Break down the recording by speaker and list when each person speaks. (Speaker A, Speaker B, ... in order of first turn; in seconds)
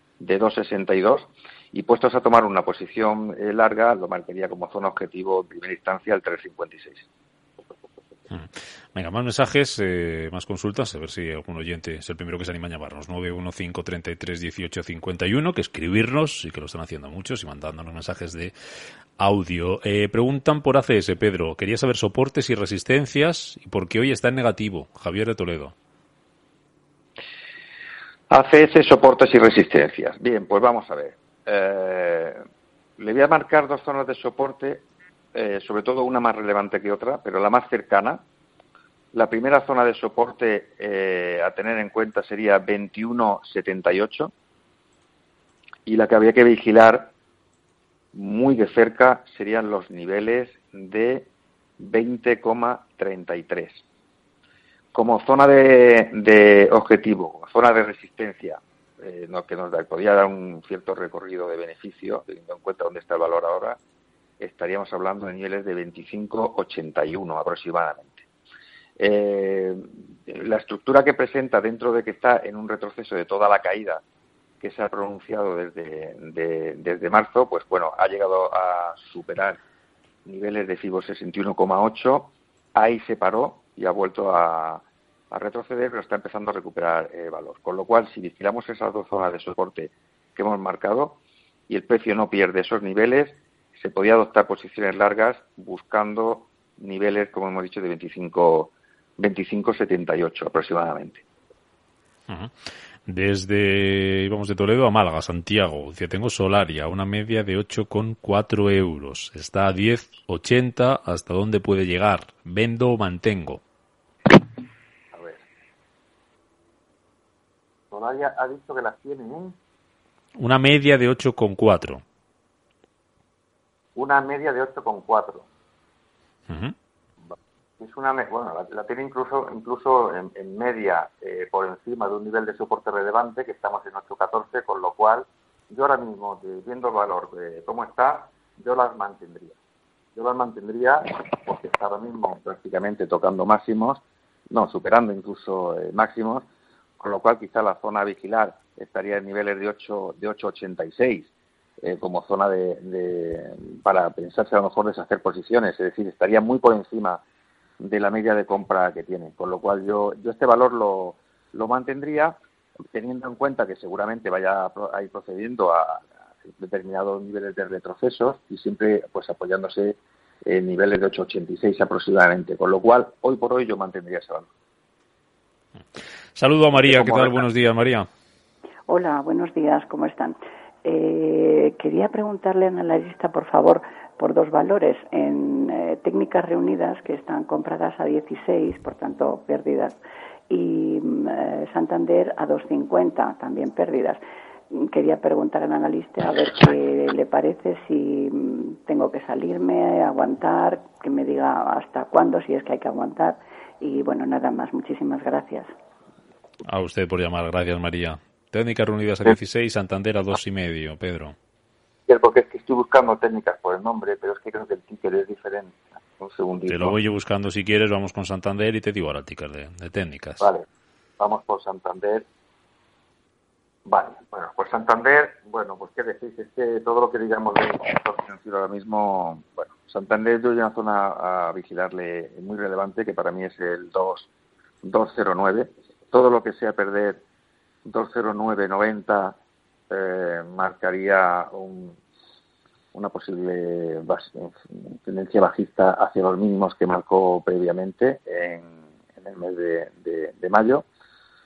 Speaker A: 0.2-7.1, 28.3-32.4, 33.0-38.2, 39.1-44.3, 45.9-47.1, 48.1-53.8, 54.9-63.8, 64.4-68.3, 69.0-74.0, 74.6-79.6, 80.2-101.2, 115.1-115.5, 117.9-119.6, 124.0-125.5, 127.8-139.6, 140.2-146.5, 147.0-157.2, 157.8-162.4, 162.9-174.5, 176.8-177.5, 212.1-217.0, 220.4-220.7, 221.2-222.3, 223.9-234.3, 234.8-237.2, 237.8-239.4, 239.9-242.0, 242.9-250.9
Speaker B: 8.3-18.5, 19.2-25.8, 103.1-113.6, 120.4-122.0, 126.5-126.8, 176.4-178.1, 206.7-211.4, 216.7-220.5
Speaker C: 178.9-190.0, 190.5-194.2, 194.7-205.7